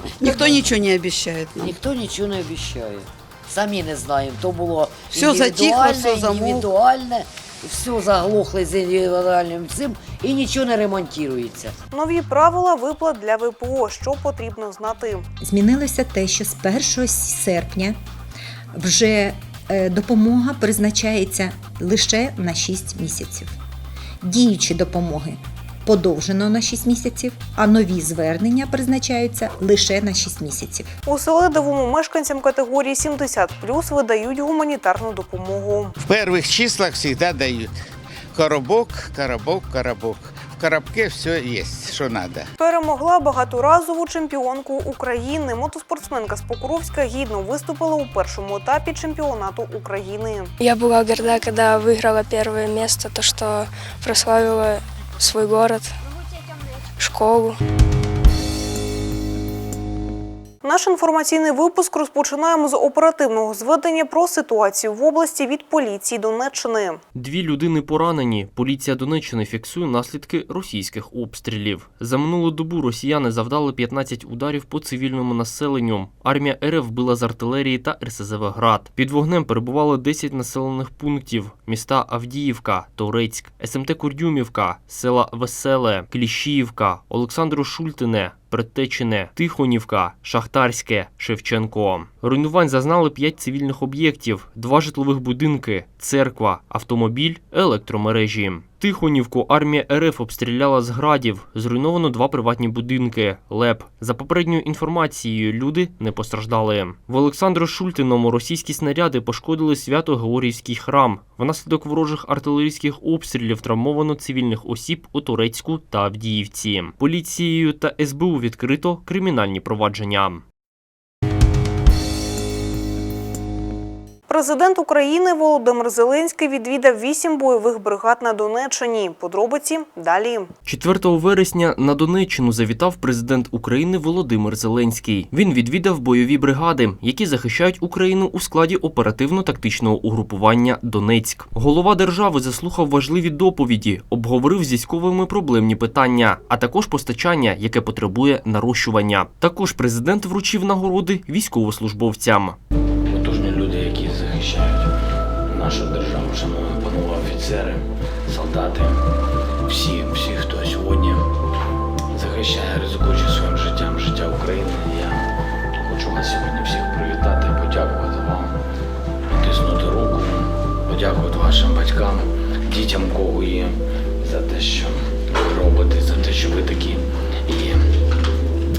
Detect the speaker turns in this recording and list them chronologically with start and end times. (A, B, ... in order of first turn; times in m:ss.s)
0:00.2-0:01.7 A
0:00.3-0:00.6 B
0:01.6-0:11.8 B
0:05.1-0:06.7 A
0:11.9-0:15.3 C
0:15.4-0:18.0 D
0:18.7-0:23.5 D
0:24.2-0:30.9 D
0:31.1-0:36.0 C
0:36.0-0:37.7 E
0:38.3-0:42.5 E
0:42.6-0:50.5 C
0:50.6-0:56.0 F
0:57.0-0:57.6 F
1:00.6-1:07.0 C
1:07.2-2:00.4 G
2:04.3-2:10.5 C
2:10.6-2:32.6 G
2:33.1-2:34.9 H
2:35.5-2:39.0 H
2:39.6-2:41.3 H
2:42.1-2:48.6 H
2:49.3-2:57.8 H